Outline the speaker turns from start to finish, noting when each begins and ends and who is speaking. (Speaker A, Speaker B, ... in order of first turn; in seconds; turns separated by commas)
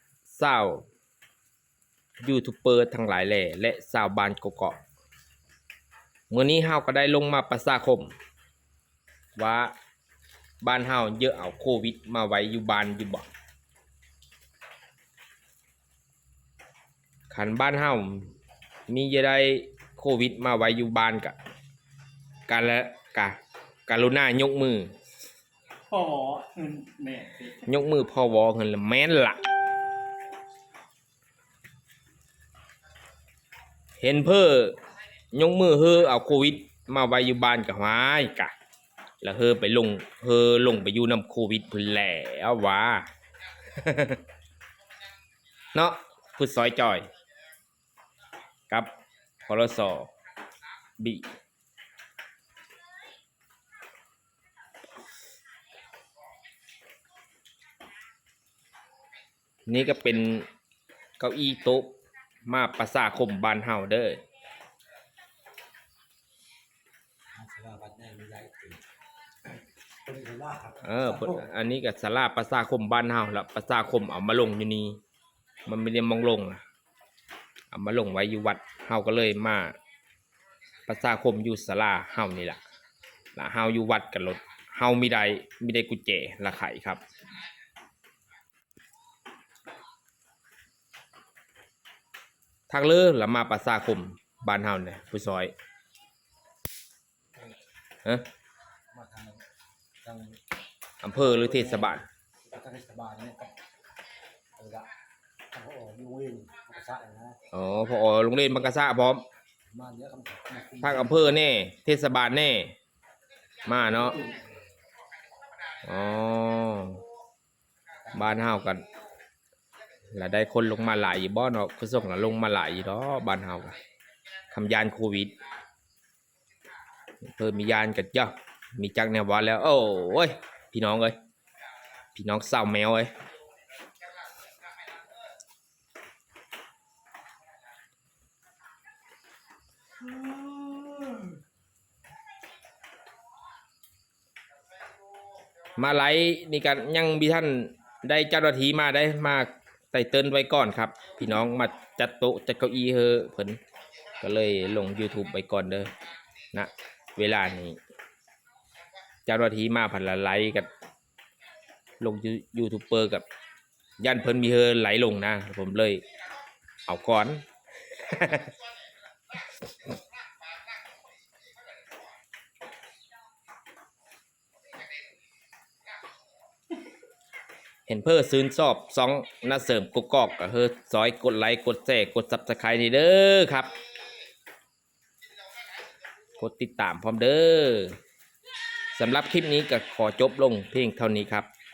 Speaker A: 0.3-0.8, Speaker A: 2.2-4.8, Speaker A: 6.3-8.1, Speaker A: 9.4-9.7, Speaker A: 10.6-13.3, Speaker A: 17.3-18.3, Speaker A: 18.9-21.4, Speaker A: 22.5-24.9, Speaker B: 25.9-27.6, Speaker A: 27.6-29.4, Speaker A: 34.0-34.8, Speaker A: 35.3-38.5, Speaker A: 39.2-43.1, Speaker A: 43.7-44.2, Speaker A: 45.7-47.1, Speaker A: 49.4-50.1, Speaker A: 51.0-51.3, Speaker A: 59.7-60.5, Speaker A: 61.2-62.0, Speaker A: 62.5-64.2, Speaker C: 67.3-68.8, Speaker C: 70.0-71.5, Speaker A: 70.8-75.0, Speaker A: 75.6-76.6, Speaker A: 77.7-79.8, Speaker A: 80.9-82.6, Speaker A: 83.3-87.0, Speaker A: 92.7-95.5, Speaker C: 98.9-99.4, Speaker C: 100.0-100.4, Speaker A: 101.0-102.0, Speaker C: 101.1-103.5, Speaker C: 104.6-104.9, Speaker C: 105.5-107.4, Speaker A: 107.5-109.2, Speaker C: 109.7-111.3, Speaker A: 110.8-112.8, Speaker A: 113.6-114.3, Speaker A: 115.8-117.0, Speaker A: 118.1-118.9, Speaker A: 120.1-123.8, Speaker A: 124.5-125.4, Speaker A: 127.2-131.2, Speaker A: 132.1-133.1, Speaker B: 140.0-141.3, Speaker A: 145.8-153.6, Speaker A: 154.2-155.9, Speaker A: 156.5-157.8, Speaker A: 159.2-160.7, Speaker A: 162.0-163.2, Speaker A: 164.0-166.0, Speaker A: 166.8-167.4, Speaker A: 167.9-168.5, Speaker A: 177.9-183.7, Speaker A: 186.4-188.0, Speaker A: 188.9-191.5